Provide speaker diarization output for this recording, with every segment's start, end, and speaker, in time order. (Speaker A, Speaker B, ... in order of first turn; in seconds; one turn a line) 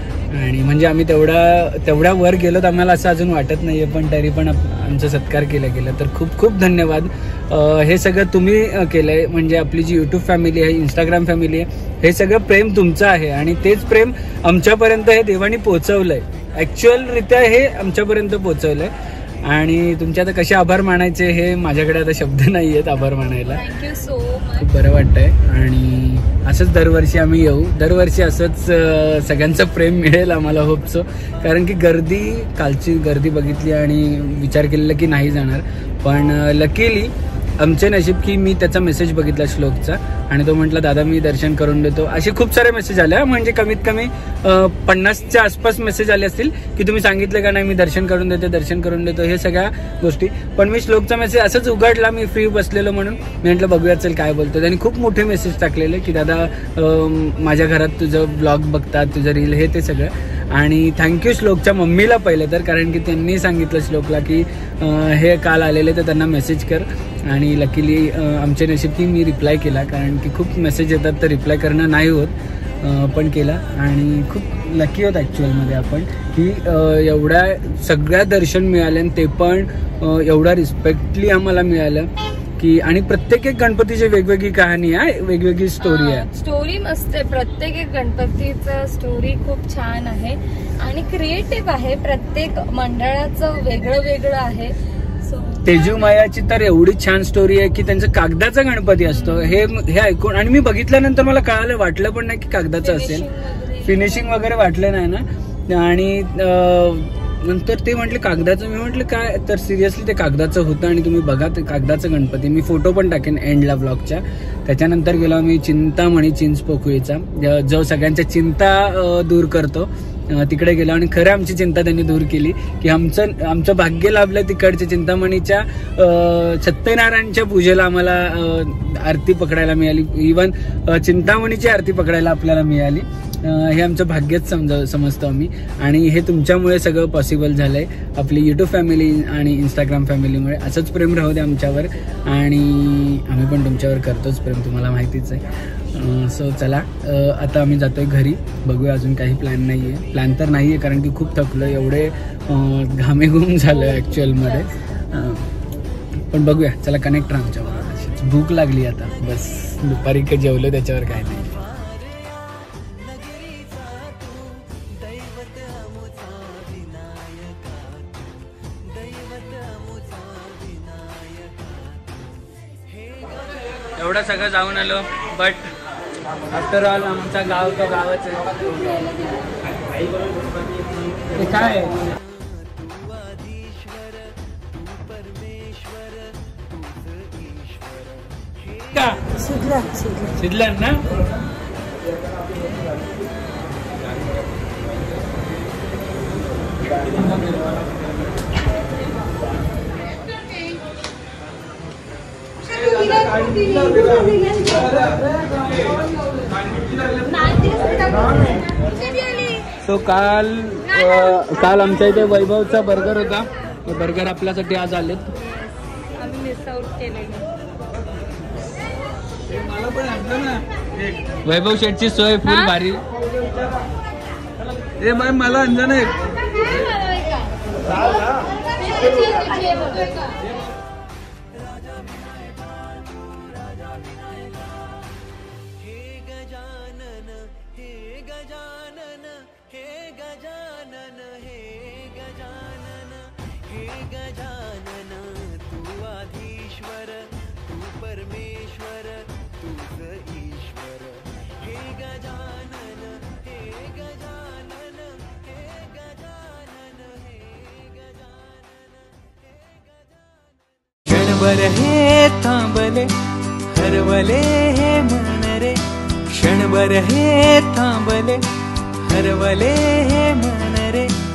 Speaker A: 0.3-18.9
Speaker A: 19.4-23.6
Speaker B: 23.5-24.7
Speaker A: 24.6-86.3
Speaker B: 85.8-96.1
Speaker A: 95.7-103.3
Speaker B: 99.0-99.7
Speaker B: 102.8-104.5
Speaker A: 103.8-155.5
Speaker B: 153.7-155.1
Speaker A: 156.3-161.6
Speaker A: 174.0-175.7
Speaker A: 176.5-179.0
Speaker A: 181.3-182.0
Speaker A: 188.9-189.3
Speaker B: 189.3-190.4
Speaker A: 190.4-191.0
Speaker A: 197.0-197.6
Speaker B: 202.7-205.3
Speaker B: 207.1-209.7
Speaker A: 209.8-215.3
Speaker B: 210.9-211.5
Speaker B: 215.3-217.5
Speaker A: 219.7-220.6
Speaker A: 221.4-223.0
Speaker B: 222.4-222.8
Speaker A: 225.0-226.1
Speaker B: 226.3-230.4
Speaker C: 261.1-263.1
Speaker C: 263.7-265.8
Speaker C: 266.3-268.4
Speaker C: 269.1-271.1